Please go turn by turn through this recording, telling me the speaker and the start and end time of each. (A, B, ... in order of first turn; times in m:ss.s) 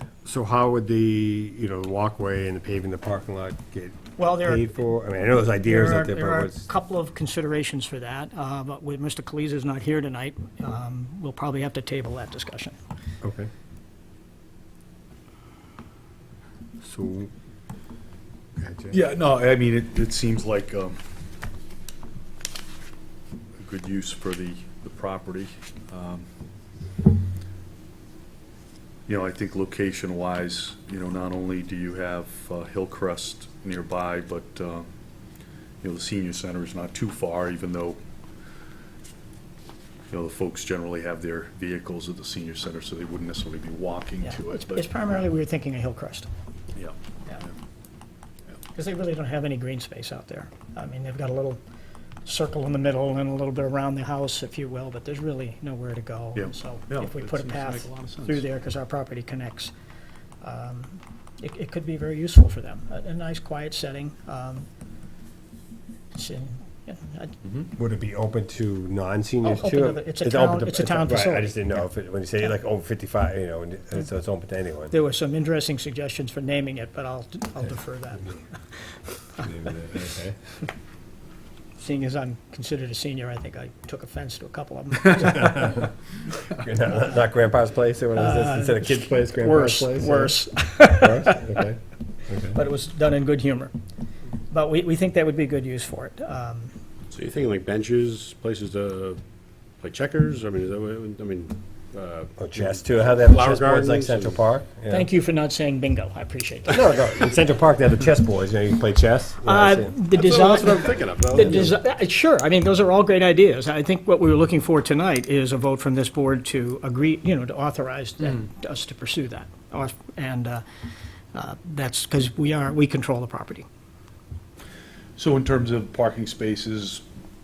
0:00.2-0:06.7 A
0:04.2-0:04.7 B
0:05.6-0:12.8 B
0:13.2-0:13.5 A
0:16.8-0:17.3 A
0:18.6-0:19.0 A
0:18.9-0:21.0 C
0:23.6-0:26.3 C
0:29.1-0:34.9 C
0:35.8-0:38.0 C
0:40.1-0:44.9 C
0:44.2-0:46.3 B
0:46.8-0:47.5 C
0:48.7-0:51.6 B
0:52.2-0:59.7 B
0:56.4-0:58.4 C
1:00.4-1:04.7 B
1:06.1-1:07.4 B
1:07.8-1:14.9 A
1:09.4-1:11.8 B
1:14.9-1:18.4 B
1:19.4-1:20.4 A
1:21.8-1:25.9 B
1:25.4-1:25.8 A
1:26.5-1:32.6 A
1:28.2-1:31.4 B
1:32.5-1:33.7 B
1:34.5-1:36.7 B
1:37.1-1:39.2 D
1:39.8-1:44.4 D
1:42.4-1:45.1 A
1:44.9-1:47.2 B
1:46.7-1:50.0 A
1:49.4-2:00.6 B
1:50.1-1:51.7 D
2:01.3-2:03.7 B
2:05.2-2:07.0 C